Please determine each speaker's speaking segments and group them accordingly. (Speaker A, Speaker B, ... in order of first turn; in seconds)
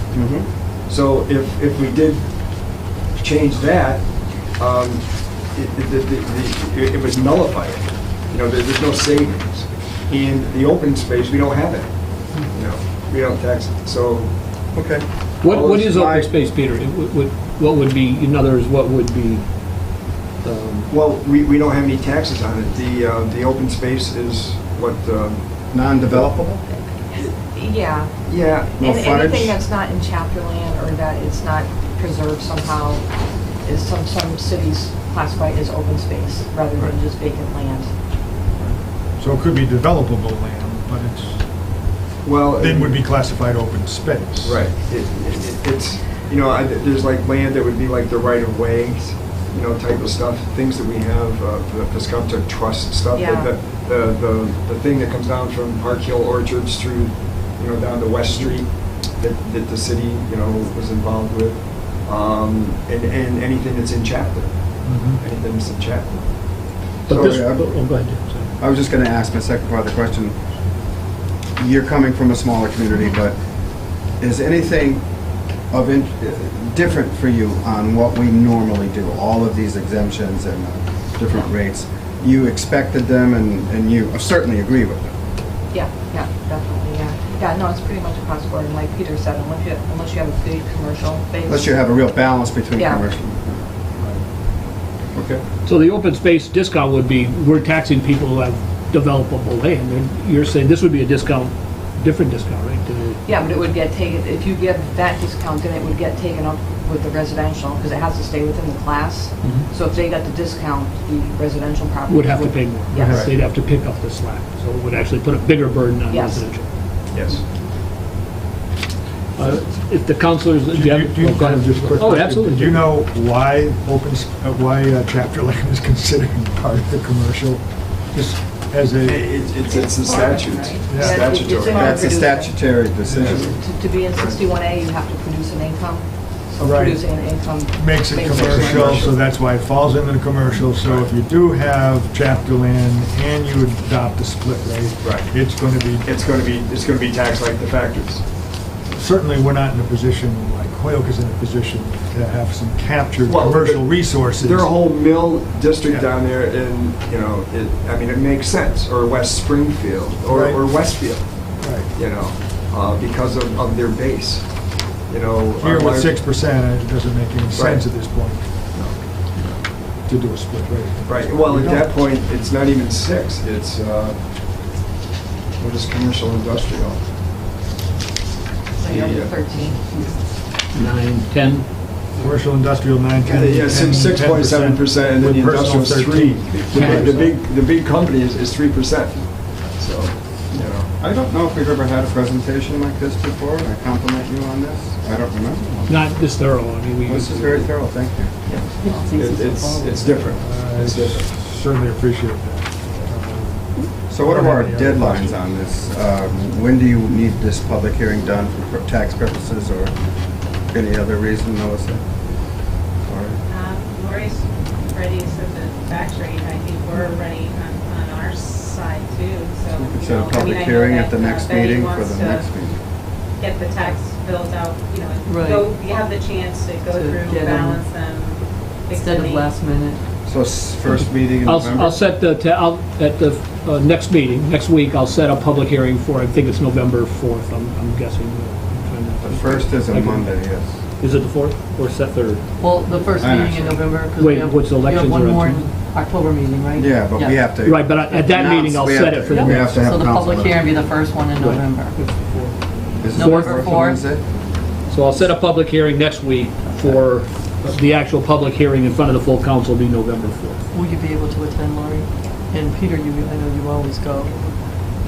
Speaker A: 0.1-0.5, 14.7-15.0, 25.7-26.6, 28.8-29.6, 67.1-67.8, 68.6-70.3, 71.6-73.3, 74.2-75.0, 75.7-85.1, 91.5-93.6, 95.1-95.4, 131.7-133.5, 190.9-196.0, 197.1-198.3, 204.1-209.9, 210.7-212.0, 213.0-213.4, 219.8-222.8, 230.2-232.0, 239.2-240.8, 243.1-243.9, 246.7-250.6, 253.0-254.2
Speaker B: 0.9-2.3, 3.1-14.4, 15.4-16.3, 20.9-26.2, 28.2-28.7, 42.2-43.0, 44.4-66.3, 67.1-67.4, 117.1-117.4, 129.0-131.9, 133.1-133.6, 134.1-134.4, 138.3-139.2, 140.7-141.1, 145.0-145.3, 146.0-148.2, 153.2-166.2, 167.5-167.9, 168.7-169.6, 171.1-174.2, 175.6-177.0, 178.8-179.4, 183.2-190.9, 199.1-201.3
Speaker C: 15.4-19.4, 20.4-20.9, 67.1-68.5, 95.6-103.3, 112.1-116.7, 119.3-122.9, 180.7-181.7, 186.7-187.3, 195.9-197.7, 231.4-242.4, 244.2-245.7, 247.6-249.8, 251.4-252.6, 253.1-253.6, 254.9-260.6
Speaker D: 27.1-28.1, 28.8-33.0, 33.6-37.9, 53.1-53.5, 85.7-91.8, 92.8-93.1, 103.2-113.3, 116.1-116.4, 129.7-139.1, 178.7-179.9
Speaker E: 39.2-41.4, 42.5-44.6, 64.8-65.2, 112.9-113.3, 120.7-129.4, 130.8-131.3, 133.0-133.4, 136.6-137.1, 137.7-146.1, 148.9-154.9, 155.8-156.2, 160.3-160.7, 161.6-161.9, 165.6-168.7, 170.0-171.9, 182.2-187.3, 200.3-205.4
Speaker F: 179.5-180.1, 198.5-200.3, 225.2-225.8, 226.9-227.8, 228.9-230.0, 242.6-247.4, 249.3-252.0, 253.1-254.0, 260.7-264.6
Speaker G: 213.5-222.5, 223.1-229.5